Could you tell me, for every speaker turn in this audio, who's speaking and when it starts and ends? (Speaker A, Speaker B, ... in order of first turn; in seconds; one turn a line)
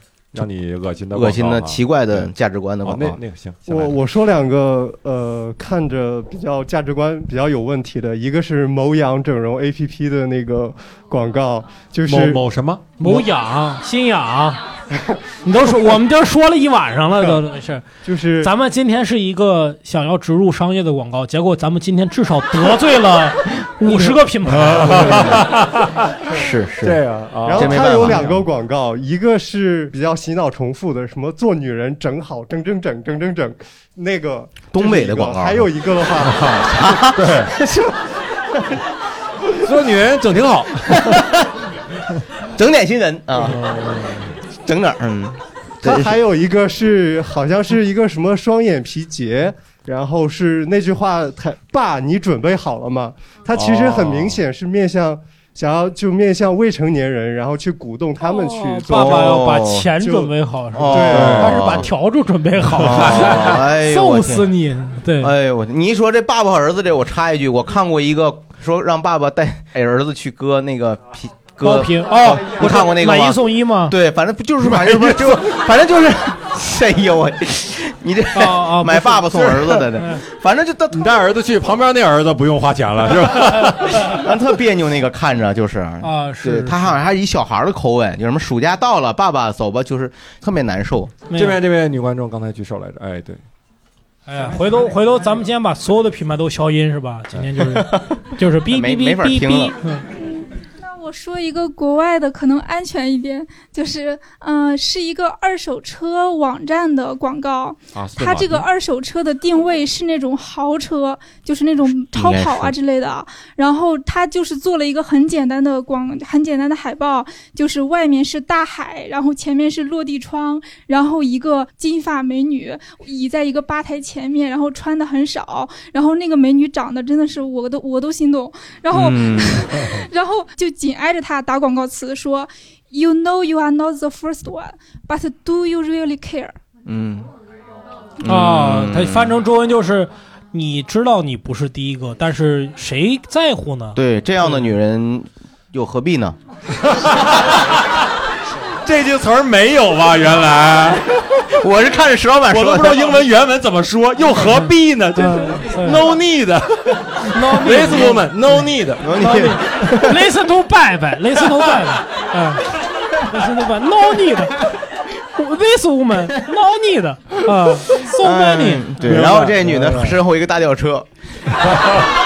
Speaker A: 0.3-2.3
Speaker B: 1.1-3.2
Speaker A: 2.8-4.0
Speaker C: 3.7-12.4
Speaker A: 12.1-13.2
Speaker D: 13.0-14.6
Speaker D: 15.4-17.9
Speaker C: 18.0-18.5
Speaker D: 18.4-25.4
Speaker A: 24.5-28.5
Speaker B: 26.3-27.0
Speaker C: 27.4-36.6
Speaker B: 27.5-28.3
Speaker B: 34.7-35.7
Speaker A: 36.0-37.5
Speaker B: 36.6-38.0
Speaker A: 39.6-41.2
Speaker B: 41.0-41.4
Speaker B: 42.6-43.6
Speaker A: 43.5-44.3
Speaker B: 44.6-46.2
Speaker C: 45.8-60.4
Speaker A: 53.5-54.4
Speaker D: 58.2-65.3
Speaker B: 58.9-59.9
Speaker B: 60.7-61.9
Speaker A: 60.9-61.6
Speaker C: 60.9-61.4
Speaker B: 62.7-64.5
Speaker B: 65.2-81.0
Speaker D: 71.6-74.0
Speaker A: 74.6-75.4
Speaker D: 78.3-80.2
Speaker A: 80.9-84.2
Speaker B: 84.0-91.1
Speaker D: 86.0-87.0
Speaker D: 91.3-91.6
Speaker A: 91.3-93.4
Speaker D: 94.3-100.1
Speaker B: 97.8-99.7
Speaker E: 100.2-136.6
Speaker A: 107.9-108.7
Speaker B: 112.1-112.8
Speaker B: 128.9-129.8
Speaker B: 136.8-137.3
Speaker D: 138.2-144.7
Speaker B: 138.2-139.4
Speaker B: 143.9-146.4
Speaker A: 146.8-147.7
Speaker A: 148.8-151.4
Speaker B: 151.6-153.2
Speaker A: 152.5-159.1
Speaker D: 154.4-156.1
Speaker D: 157.3-158.5
Speaker B: 158.1-160.2
Speaker D: 159.1-162.7
Speaker D: 163.2-164.7
Speaker D: 165.3-168.9
Speaker B: 168.2-171.1
Speaker A: 169.0-170.2
Speaker A: 171.6-172.1